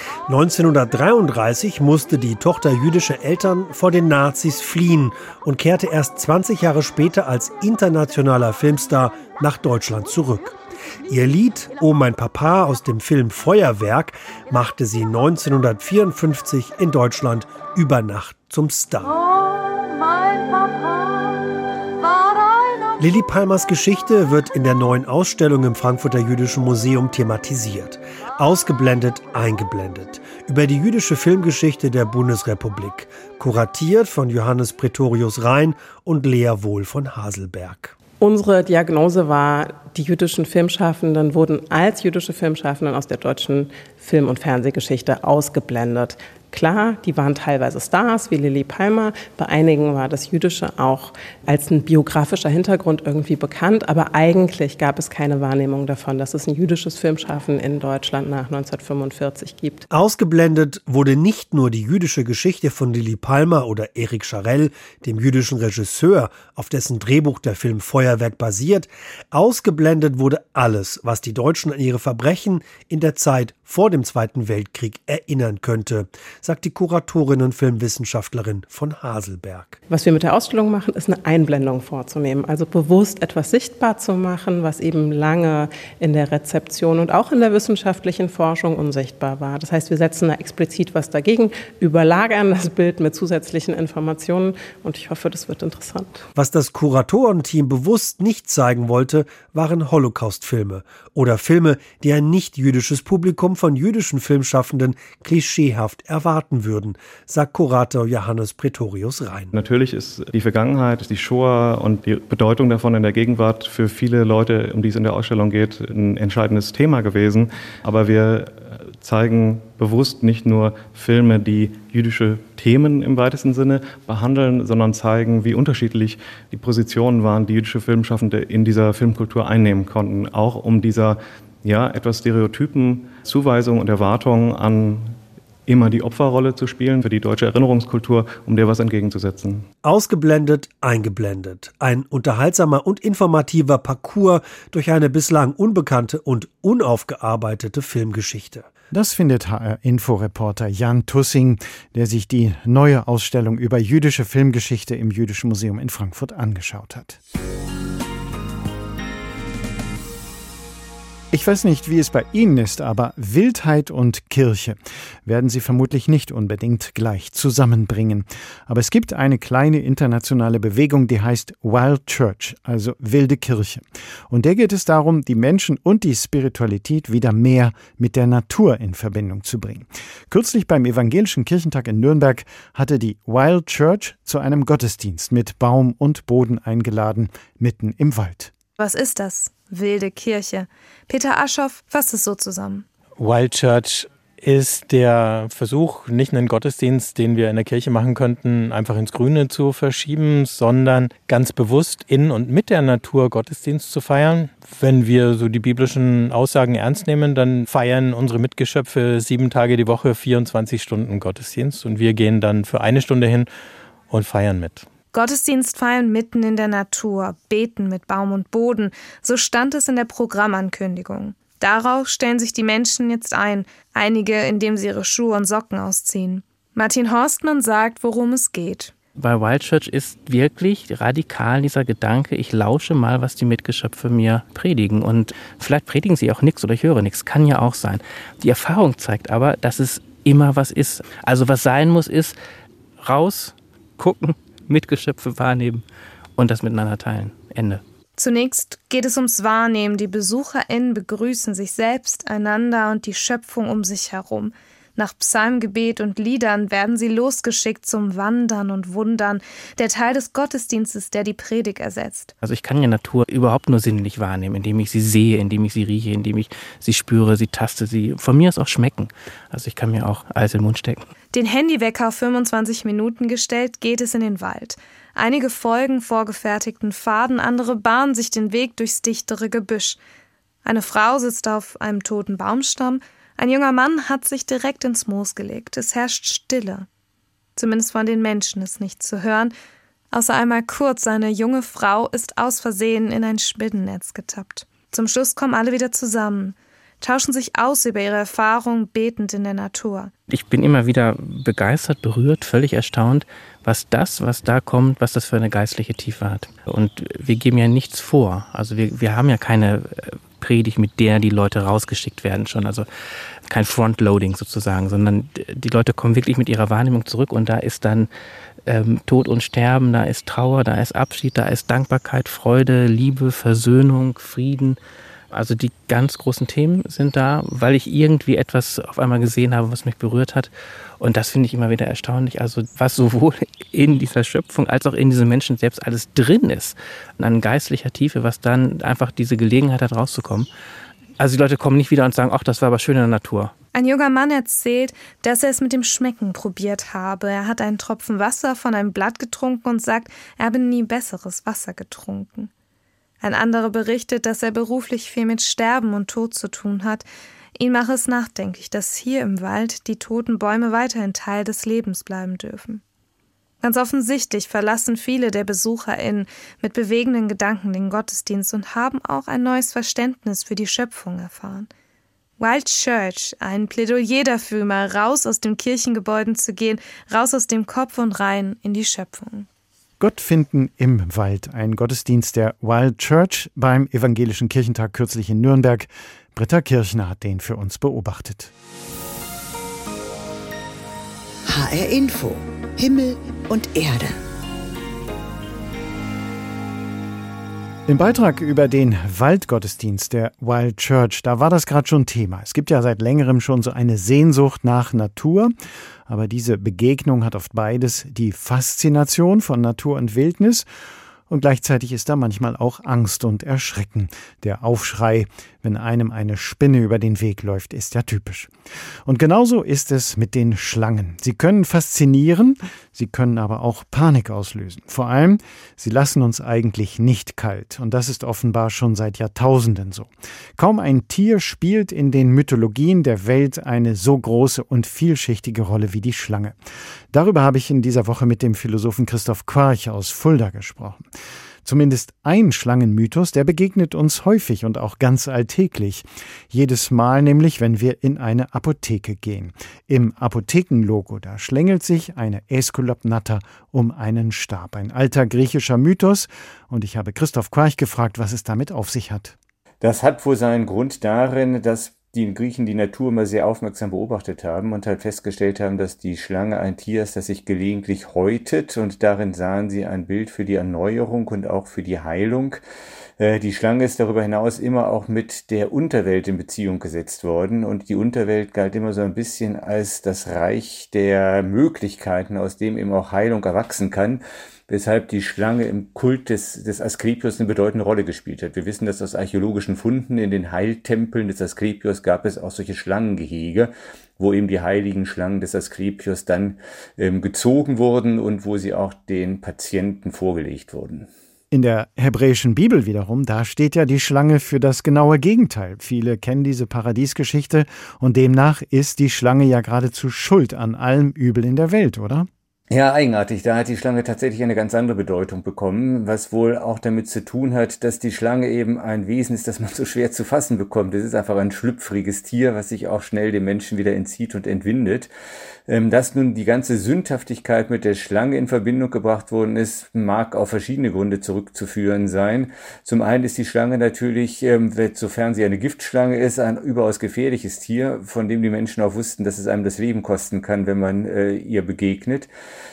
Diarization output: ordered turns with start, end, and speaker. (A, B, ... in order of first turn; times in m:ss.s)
0:00.3-0:19.2 A
0:23.0-0:38.0 A
0:38.2-0:59.9 B
0:59.9-1:19.8 A
1:19.9-1:36.3 B
1:36.4-1:49.5 A
1:49.5-2:19.7 C
2:19.8-2:28.7 A
2:28.9-2:37.2 D
2:41.3-3:08.5 D
3:08.8-3:12.9 E
3:13.2-3:33.5 F
3:34.1-3:34.9 F
3:35.1-3:48.9 E
3:49.2-4:02.4 G
4:03.0-4:05.8 G
4:06.4-4:07.8 G
4:08.2-4:22.3 E
4:22.4-4:31.1 G
4:31.3-4:40.0 E
4:40.6-4:46.9 E
4:47.6-4:49.5 E
4:50.1-5:00.1 E
5:00.3-5:12.9 G
5:13.5-5:18.1 G
5:18.7-5:24.8 G
5:25.3-5:40.5 G
5:41.2-5:43.5 G
5:43.7-5:52.5 E
5:53.2-6:02.8 E
6:03.6-6:11.7 E
6:12.4-6:19.5 E
6:20.0-6:28.5 D
6:31.5-6:34.2 H
6:37.9-6:45.5 D
6:46.1-6:50.7 D
6:51.3-6:58.5 D
6:59.1-7:16.6 D
7:17.1-7:21.0 D
7:21.6-7:39.4 D
7:39.8-7:52.6 I
7:53.2-8:21.1 I
8:21.5-8:32.3 D
8:32.7-8:45.1 I
8:45.7-9:02.3 I